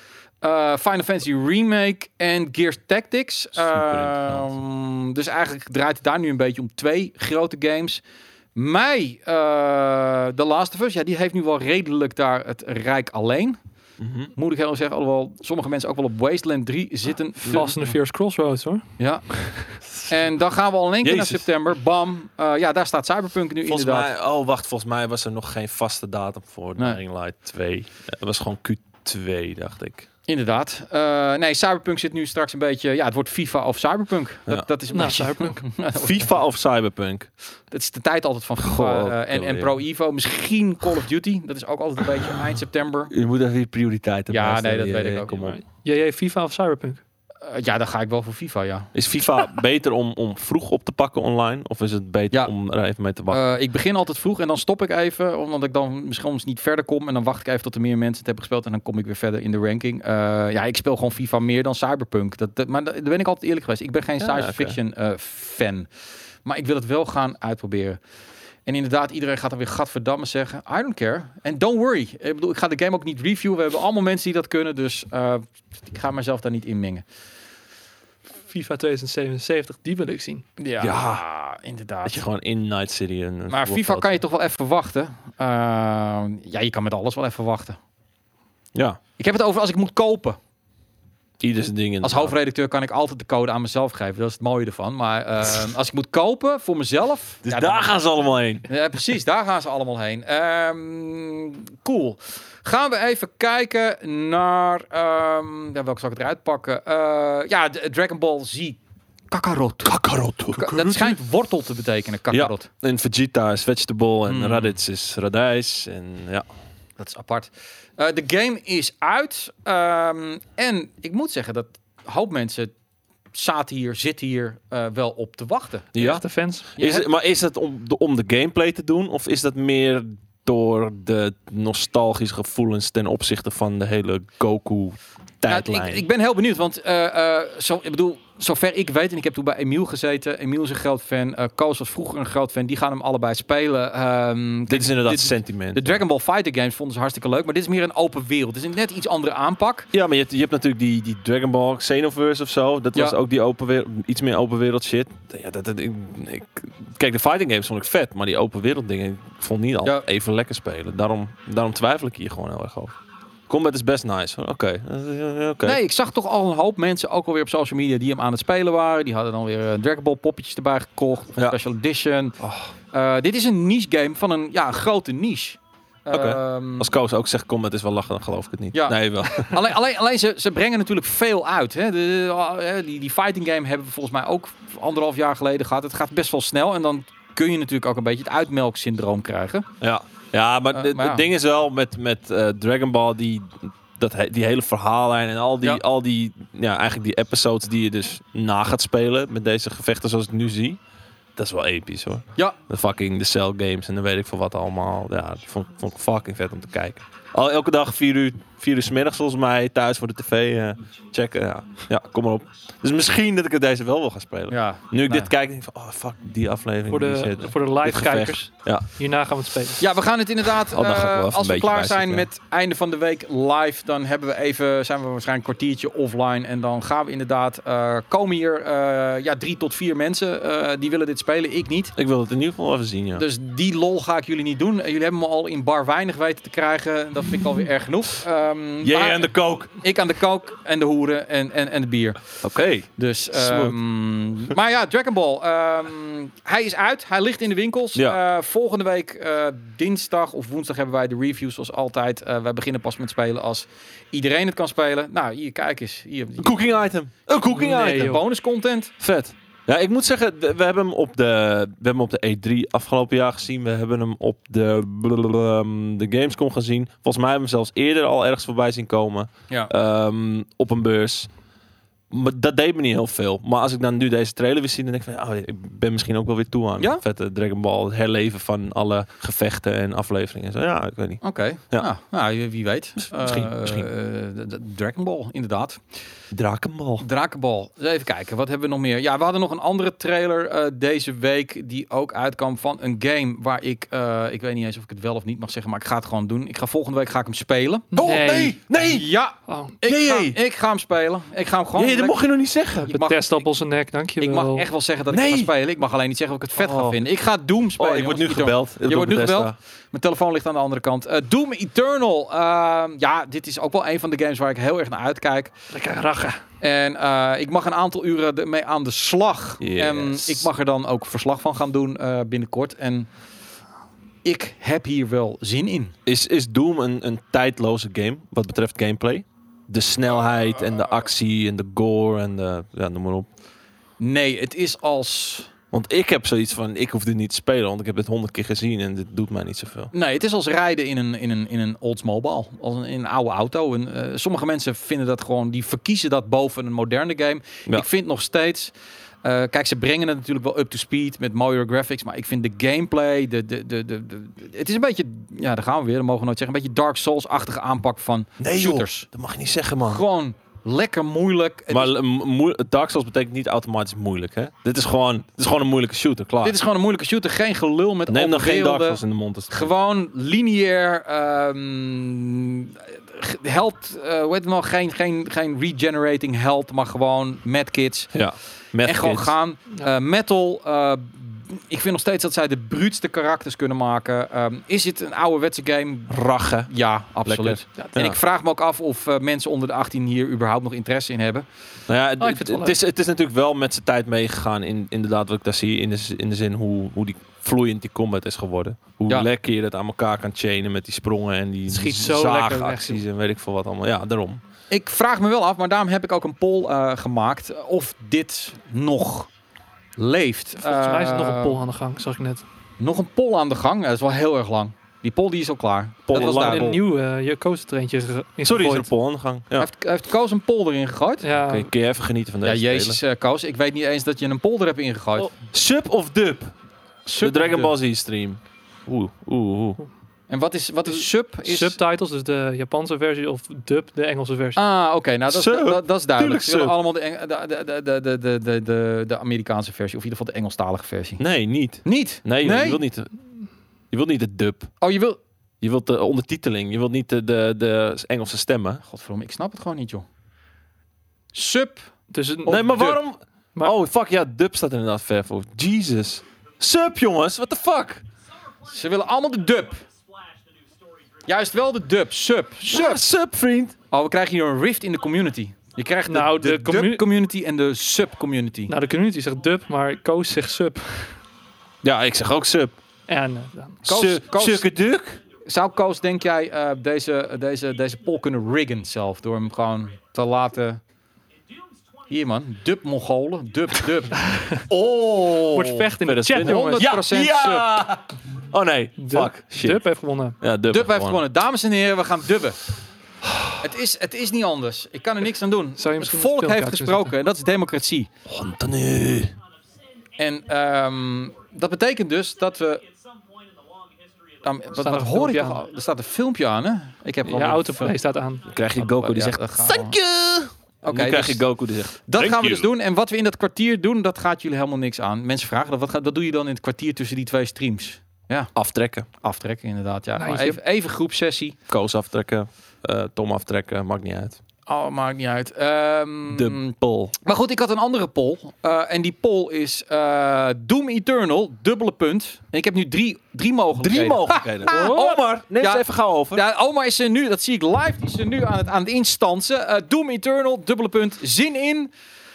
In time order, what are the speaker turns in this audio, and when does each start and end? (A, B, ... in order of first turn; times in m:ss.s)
0:00.4-0:08.0 A
0:03.6-0:04.5 B
0:08.6-0:13.6 A
0:14.0-0:14.3 B
0:14.4-0:17.8 A
0:17.4-0:17.9 B
0:17.5-0:19.5 C
0:19.0-0:19.4 A
0:20.1-0:24.1 A
0:21.0-0:21.4 B
0:23.7-0:30.1 B
0:30.3-0:36.3 A
0:34.9-0:35.6 C
0:36.0-0:37.3 B
0:37.7-0:43.1 A
0:38.6-0:39.8 B
0:43.1-0:45.6 B
0:44.3-0:45.3 A
0:45.3-0:47.0 C
0:47.4-0:48.9 A
0:48.9-0:53.4 B
0:53.3-1:05.9 A
1:04.2-1:04.8 B
1:06.4-1:08.0 A
1:08.7-1:17.0 A
1:18.4-1:20.4 C
1:20.6-1:22.2 A
1:20.8-1:21.2 B
1:22.0-1:24.2 B
1:23.5-1:27.8 A
1:28.7-1:29.0 B
1:29.2-1:30.4 A
1:31.4-1:32.3 B
1:32.0-1:37.9 A
1:37.4-1:38.7 B
1:38.7-1:48.8 A
1:49.3-1:50.0 A
1:49.8-1:51.2 B
1:50.5-1:52.7 A
1:52.3-1:56.4 B
1:54.3-1:54.7 A
1:57.0-2:02.7 A
2:03.3-2:06.0 A
2:05.9-2:16.0 B
2:06.0-2:06.7 C
2:06.8-2:07.1 A
2:15.5-2:29.9 A
2:24.7-2:26.0 B
2:29.9-2:42.9 B
2:43.5-2:45.8 B
2:45.6-2:52.4 A
2:52.4-2:52.7 B
2:52.9-2:56.9 A
2:56.1-2:59.7 B
2:58.7-3:09.7 A
3:09.8-3:20.8 B
3:10.7-3:11.2 A
3:21.4-3:38.9 B
3:34.5-3:35.3 A
3:36.9-3:39.8 C
3:39.8-3:52.0 A
3:40.6-3:42.3 B
3:52.0-3:53.2 B
3:53.2-4:02.2 A
3:58.8-3:59.7 B
4:02.4-4:03.8 B
4:03.0-4:16.6 A
4:16.4-4:18.2 B
4:17.5-4:18.9 A
4:17.5-4:18.2 C
4:19.0-4:31.3 B
4:32.1-4:41.9 B
4:41.2-4:45.8 A
4:43.1-4:43.9 B
4:46.3-4:47.0 B
4:47.0-4:57.9 A
4:57.9-4:58.6 C
4:57.9-4:59.1 B
4:58.8-5:02.2 A
4:59.5-4:59.8 C
4:59.8-5:00.4 B
5:01.8-5:02.9 B
5:02.9-5:03.4 A
5:02.9-5:04.7 C
5:04.2-5:15.5 A
5:05.1-5:05.5 B
5:06.6-5:07.0 B
5:07.8-5:09.6 B
5:15.7-5:16.4 C
5:16.6-5:23.1 A
5:19.6-5:20.5 B
5:24.2-5:25.9 A
5:26.1-5:33.3 B
5:34.0-5:35.5 A
5:35.7-5:39.9 B
5:39.9-5:48.7 A
5:49.2-5:59.1 A
5:58.4-6:00.0 B
5:59.9-6:01.9 A
6:01.7-6:06.6 B
6:06.4-6:18.2 A
6:08.1-6:09.7 B
6:18.1-6:19.4 B
6:18.8-6:26.2 A
6:26.1-6:26.7 B
6:26.7-6:31.5 A
6:27.2-6:28.2 B
6:31.9-6:44.4 B
6:32.2-6:32.8 C
6:41.7-6:43.0 C
6:44.7-6:49.3 A
6:50.0-6:51.6 A
6:50.6-6:52.4 C
6:52.8-6:56.7 A
6:56.1-6:56.8 B
6:56.2-6:58.9 C
6:58.4-6:59.7 B
6:59.6-7:01.2 A
7:01.2-7:01.7 C
7:01.3-7:03.0 B
7:02.4-7:05.3 A
7:05.5-7:06.5 B
7:07.1-7:07.7 A
7:07.2-7:09.8 B
7:10.3-7:11.8 A
7:11.4-7:14.6 C
7:14.6-7:21.2 A
7:15.3-7:16.8 B
7:21.2-7:23.1 B
7:21.8-7:22.8 A
7:23.9-7:24.7 B
7:24.8-7:25.2 A
7:25.6-7:28.8 B
7:28.8-7:30.1 A
7:31.3-7:31.9 A
7:32.1-7:32.8 C
7:32.4-7:33.0 A
7:32.5-7:38.0 B
7:38.7-7:39.8 A
7:41.2-7:43.0 A
7:42.7-7:43.7 B
7:43.9-7:48.7 A
7:46.1-7:47.1 C
7:48.7-7:51.2 C
7:51.8-7:52.7 B
7:53.1-7:53.8 C
7:53.8-7:55.2 B
7:53.9-7:54.7 A
7:55.4-8:00.8 A
8:02.1-8:05.4 A
8:04.7-8:09.8 B
8:05.5-8:06.9 C
8:06.4-8:07.7 A
8:09.0-8:10.4 C
8:10.4-8:11.2 B
8:10.7-8:12.6 A
8:13.6-8:18.1 A
8:15.8-8:17.1 C
8:18.3-8:19.4 B
8:20.2-8:22.8 A
8:24.4-8:28.0 A
8:24.8-8:25.6 C
8:27.2-8:28.5 C
8:28.4-8:32.7 B
8:28.8-8:30.0 A
8:30.8-8:31.5 A
8:32.1-8:38.5 A
8:38.6-8:39.1 B
8:39.2-8:41.6 A
8:40.2-8:40.6 C
8:41.7-8:44.4 B
8:44.7-9:01.9 A
8:46.3-8:47.1 B
8:53.8-8:56.4 B
8:54.7-8:55.2 C